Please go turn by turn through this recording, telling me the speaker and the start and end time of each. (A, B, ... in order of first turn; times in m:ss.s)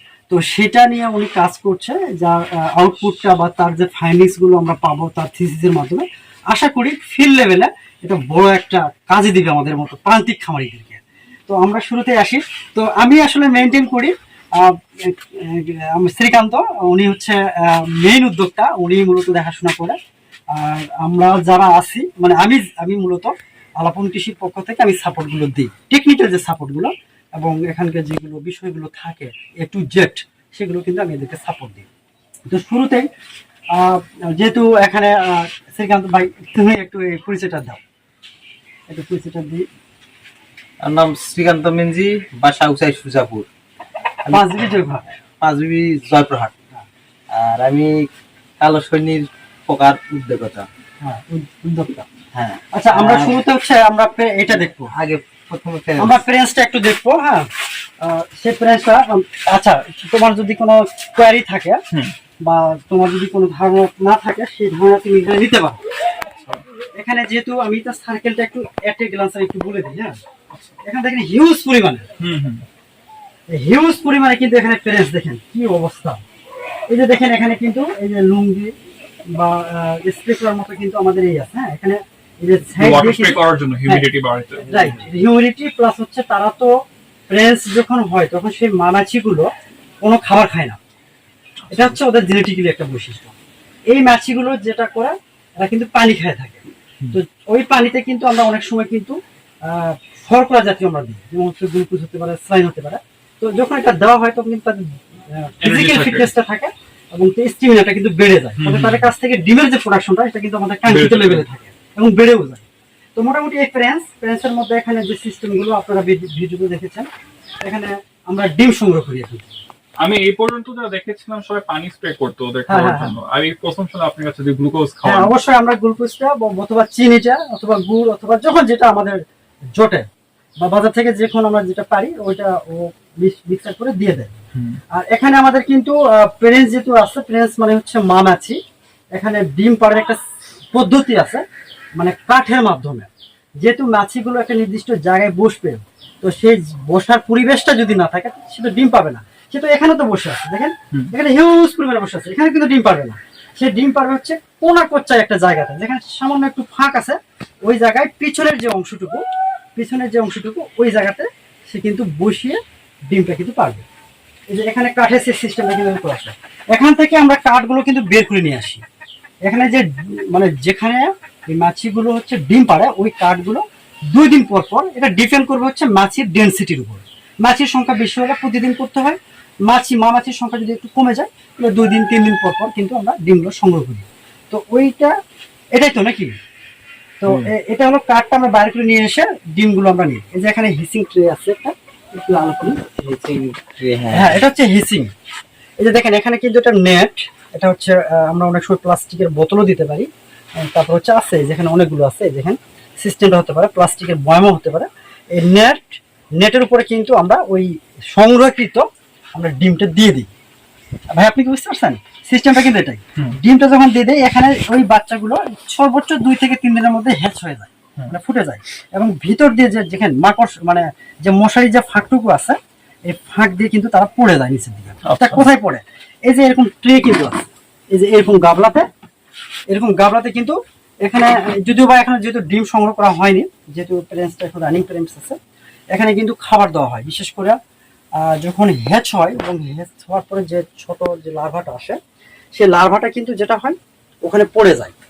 0:00.3-0:20.0 A
0:20.5-0:31.9 A
0:32.5-0:33.0 A
0:33.7-0:37.8 A
0:38.9-0:39.7 A
0:40.8-0:43.5 B
0:44.2-0:44.6 B
0:44.3-0:45.1 A
0:45.4-0:46.6 B
0:47.3-0:48.0 B
0:48.6-0:50.7 B
0:51.0-0:52.1 A
0:52.3-0:53.4 B
0:52.7-0:54.9 A
0:54.8-0:56.2 B
0:56.0-0:57.5 A
0:58.0-1:01.8 A
1:02.4-1:05.8 A
1:06.4-1:06.6 C
1:07.0-1:10.2 A
1:10.5-1:10.8 C
1:10.8-1:12.0 A
1:12.2-1:12.6 C
1:13.5-1:16.2 A
1:16.9-1:18.7 A
1:19.3-1:24.0 A
1:22.8-1:25.0 C
1:24.7-1:26.7 A
1:27.3-1:29.5 A
1:30.0-1:30.8 A
1:31.6-1:32.0 C
1:31.7-1:33.3 A
1:33.9-1:52.6 A
1:45.6-1:46.3 C
1:48.6-1:49.1 C
1:50.8-1:51.4 C
1:53.2-1:57.1 A
1:57.6-1:59.6 A
2:00.0-2:05.3 C
2:02.7-2:03.1 A
2:05.0-2:09.2 A
2:09.7-2:10.0 A
2:10.6-2:14.3 A
2:14.5-2:14.8 C
2:14.9-2:18.6 A
2:19.1-2:20.2 A
2:20.7-2:21.4 A
2:22.0-2:23.1 A
2:23.6-2:39.2 A
2:39.8-2:43.8 A
2:44.5-2:48.8 A
2:49.4-3:05.1 A
3:05.7-3:06.3 A
3:07.2-3:12.8 A
3:12.9-3:14.4 B
3:14.1-3:15.1 A
3:15.8-3:30.3 A
3:31.1-3:48.9 A
3:45.0-3:45.4 C
3:49.7-3:55.4 A
3:55.9-3:57.6 A
3:58.2-4:02.0 A
4:02.5-4:04.9 A